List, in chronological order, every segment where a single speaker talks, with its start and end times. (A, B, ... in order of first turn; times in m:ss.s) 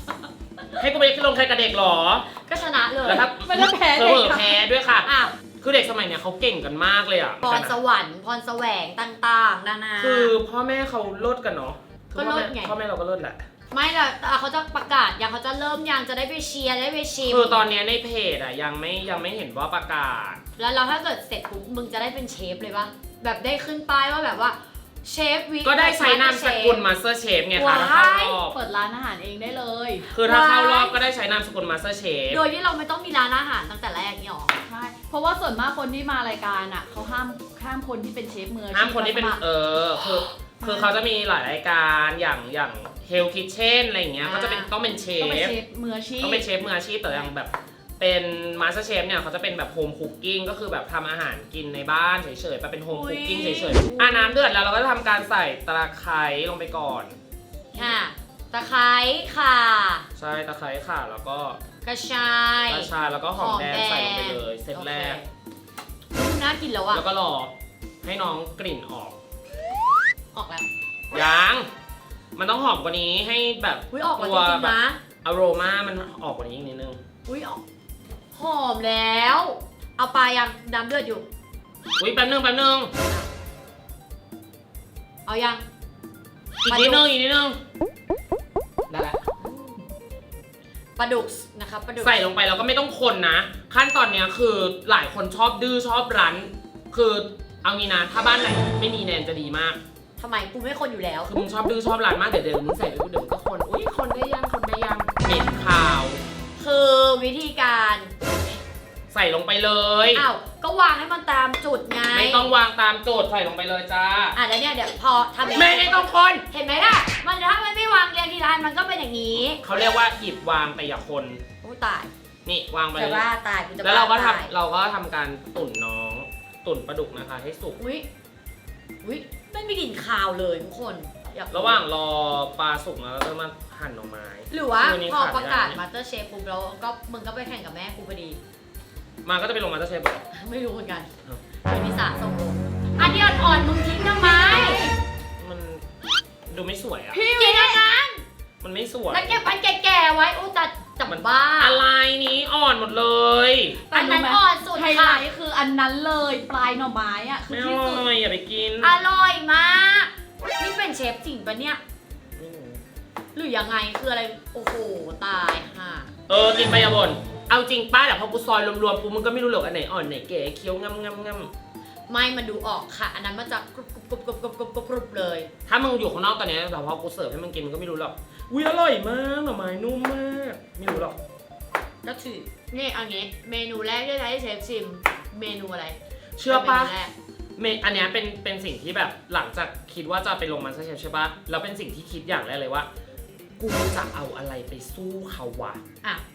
0:00.8-0:02.3 A
0:02.3-0:03.3 B
0:03.0-0:05.1 A
0:03.2-0:04.6 C
0:05.0-0:05.3 B
0:05.6-0:07.7 A
0:07.4-0:10.3 B
0:10.0-0:13.4 A
0:12.1-0:12.8 B
0:13.7-0:17.6 B
0:17.2-0:20.4 A
0:20.6-0:26.8 B
0:25.6-0:28.6 A
0:27.6-0:28.4 B
0:28.5-0:30.1 C
0:30.1-0:31.0 B
0:30.1-0:32.4 A
0:32.3-0:34.6 B
0:34.7-0:39.4 C
0:38.7-0:45.6 A
0:44.2-0:44.7 B
0:45.2-0:46.5 C
0:46.2-0:57.2 A
0:52.9-0:54.3 B
0:57.7-1:00.0 B
1:00.2-1:01.6 A
1:01.8-1:05.3 B
1:02.7-1:05.2 A
1:06.1-1:07.0 B
1:06.9-1:09.2 A
1:10.3-1:10.7 B
1:11.1-1:11.7 A
1:12.4-1:17.0 A
1:13.9-1:15.0 B
1:17.3-1:17.6 B
1:18.3-1:21.3 B
1:22.0-1:22.9 A
1:25.2-1:25.6 B
1:26.6-1:27.6 A
1:26.7-1:27.0 B
1:28.9-1:29.2 A
1:29.4-1:29.8 B
1:31.0-1:32.2 B
1:32.0-1:39.8 A
1:40.2-1:41.3 B
1:41.2-1:46.2 A
1:46.6-1:48.3 B
1:49.1-1:50.2 A
1:50.1-1:52.5 B
1:52.1-1:54.4 A
1:54.3-1:59.6 B
1:55.5-1:56.4 A
1:59.6-2:01.4 A
2:01.6-2:02.1 B
2:02.4-2:03.2 A
2:02.9-2:04.5 B
2:03.8-2:07.8 A
2:07.8-2:08.1 B
2:09.0-2:11.8 B
2:11.5-2:15.8 A
2:14.5-2:18.4 B
2:19.2-2:20.2 A
2:20.3-2:21.1 B
2:21.6-2:24.9 B
2:25.4-2:25.8 A
2:26.5-2:27.2 A
2:27.1-2:27.9 C
2:27.2-2:28.2 B
2:28.6-2:29.4 A
2:29.1-2:31.8 B
2:31.0-2:33.8 A
2:33.9-2:38.0 C
2:33.9-2:35.2 B
2:37.5-2:38.9 A
2:38.8-2:41.8 B
2:42.4-2:42.8 A
2:43.3-2:46.1 B
2:46.3-2:51.5 A
2:52.1-2:55.5 B
2:55.7-3:01.2 A
3:02.0-3:07.1 B
3:06.4-3:07.0 A
3:07.6-3:12.9 A
3:13.6-3:15.8 A